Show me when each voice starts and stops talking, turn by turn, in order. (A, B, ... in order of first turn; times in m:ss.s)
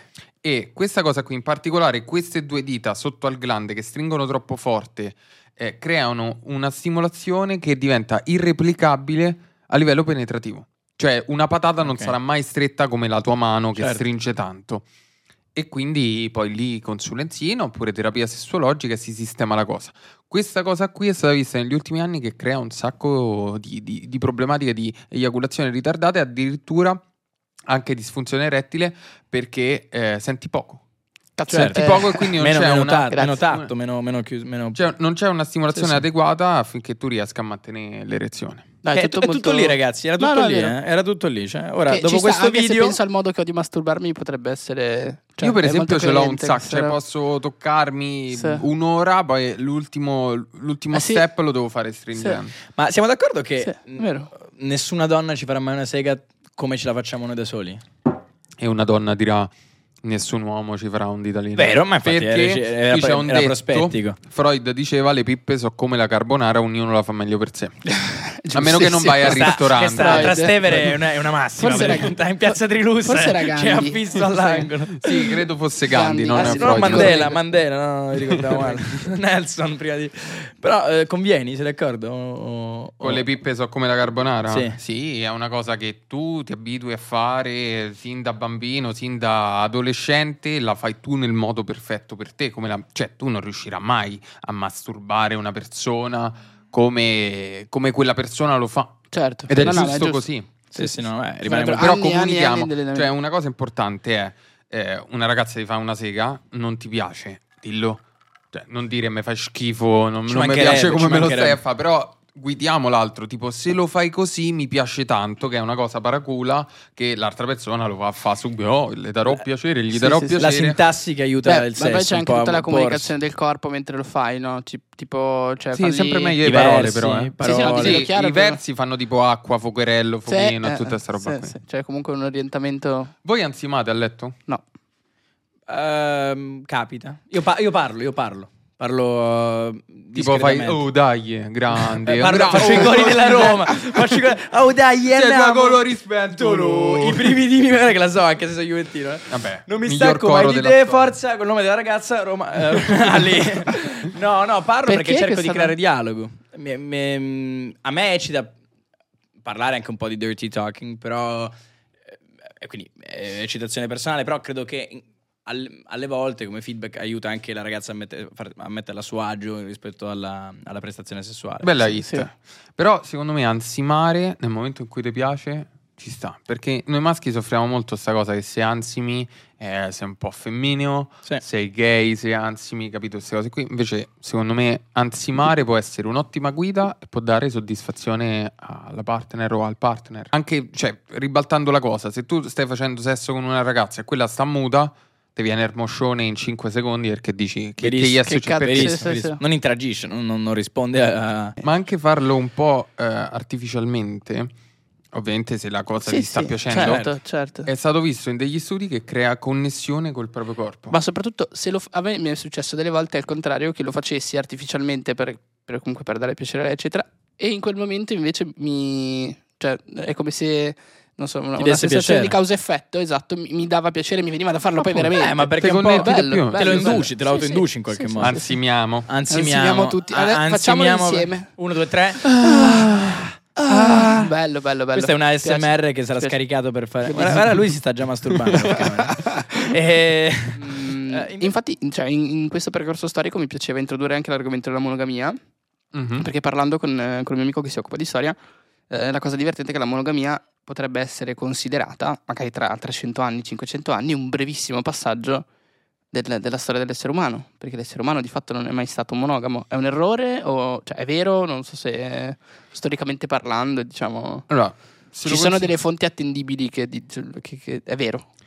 0:00.4-0:14.8 A
0:11.8-0:12.1 B
0:13.8-0:14.0 B
0:15.5-0:27.0 A
0:27.7-0:30.8 A
0:31.4-0:32.3 C
0:31.5-0:34.8 B
0:31.5-0:33.7 A
0:33.1-0:33.4 C
0:34.7-0:38.7 A
0:35.8-0:36.0 B
0:38.8-0:40.7 C
0:38.9-0:43.0 B
0:41.9-0:47.0 C
0:45.4-0:52.6 A
0:48.3-0:48.6 C
0:50.9-0:51.2 C
0:52.1-0:52.4 C
0:52.8-0:57.8 B
0:53.6-0:54.3 C
0:58.6-0:59.5 A
1:00.0-1:07.8 A
1:01.6-1:04.2 B
1:07.9-1:11.0 C
1:08.5-1:10.5 A
1:09.2-1:15.1 B
1:11.6-1:14.7 C
1:15.0-1:17.2 A
1:15.8-1:17.5 C
1:16.3-1:23.2 B
1:18.3-1:18.8 A
1:23.0-1:40.5 A
1:24.5-1:24.8 B
1:39.1-1:43.1 C
1:40.7-1:41.9 B
1:41.8-2:00.8 A
1:50.3-1:51.6 B
1:59.9-2:00.4 C
2:00.4-2:03.1 B
2:01.4-2:06.4 C
2:05.7-2:11.5 A
2:06.4-2:08.0 B
2:07.4-2:08.6 C
2:10.3-2:13.1 C
2:13.2-2:14.4 A
2:15.7-2:20.8 B
2:20.1-2:24.0 A
2:21.8-2:38.5 B
2:25.1-2:27.4 A
2:29.3-2:31.1 A
2:34.8-2:35.7 C
2:39.4-2:41.5 B
2:42.6-2:52.0 B
2:51.6-3:19.1 A
3:17.8-3:21.6 B
3:18.3-3:19.4 C
3:21.6-3:24.5 A
3:25.1-3:27.1 A
3:26.0-3:27.7 C
3:26.7-3:27.1 B
3:27.6-3:31.0 A
3:30.9-3:48.5 C
3:41.6-3:42.4 B
3:44.8-3:48.4 B
3:45.6-3:47.1 A
3:48.2-3:49.1 A
3:49.1-3:54.3 B
3:49.3-3:51.5 C
3:52.4-3:53.0 C
3:52.4-3:52.8 A
3:53.6-3:56.3 C
3:54.9-4:01.5 B
3:57.0-3:57.5 C
3:58.5-3:59.7 C
4:00.6-4:05.4 C
4:05.9-4:06.3 A
4:06.2-4:08.4 C
4:08.9-4:15.4 C
4:16.1-4:24.5 C
4:24.5-4:25.7 A
4:25.2-4:28.3 C